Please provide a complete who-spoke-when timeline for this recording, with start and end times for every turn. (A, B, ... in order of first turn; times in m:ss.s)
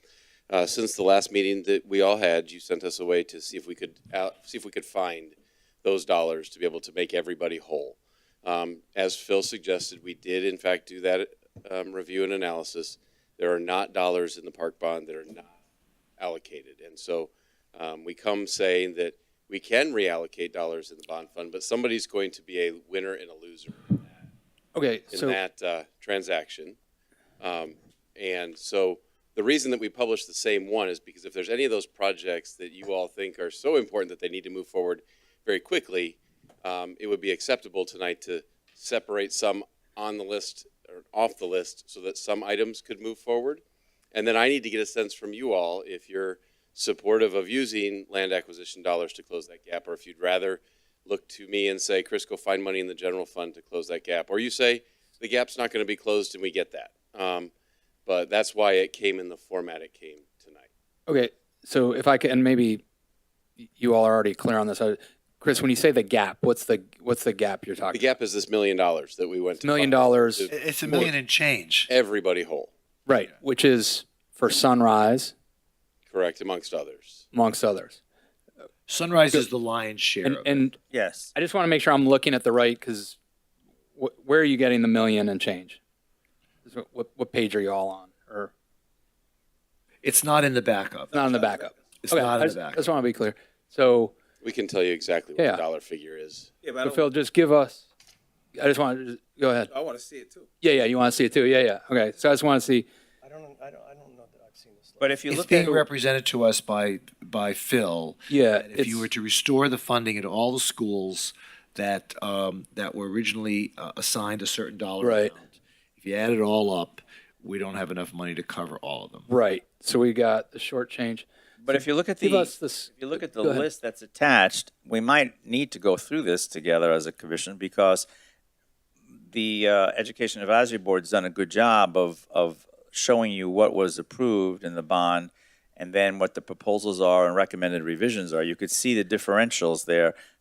0:00.5-0:15.5 A
0:16.2-0:24.2 A
0:24.7-0:25.4 B
0:25.1-0:26.8 A
0:27.4-0:43.6 A
0:44.1-0:57.5 A
0:58.0-1:00.7 A
1:01.1-1:02.8 B
1:03.6-1:08.1 B
1:07.9-1:10.5 A
1:09.6-1:11.1 B
1:10.5-1:11.9 C
1:11.9-1:12.7 A
1:13.0-1:15.3 B
1:16.1-1:17.2 A
1:17.3-1:18.0 B
1:18.9-1:20.6 C
1:20.2-1:20.8 B
1:20.9-1:21.3 D
1:21.3-1:23.2 B
1:23.9-1:25.8 B
1:26.6-1:28.5 B
1:30.0-1:31.3 C
1:31.1-1:34.1 B
1:32.0-1:32.8 C
1:34.4-1:36.5 A
1:35.4-1:35.6 B
1:36.7-1:37.9 B
1:38.6-1:39.7 B
1:39.8-1:40.4 D
1:40.6-1:42.9 B
1:43.2-1:45.2 E
1:45.0-1:45.8 D
1:45.3-1:59.3 C
1:48.3-1:49.1 B
1:55.0-1:55.3 B
1:59.3-2:03.7 B
2:01.6-2:08.1 D
2:09.3-2:20.1 D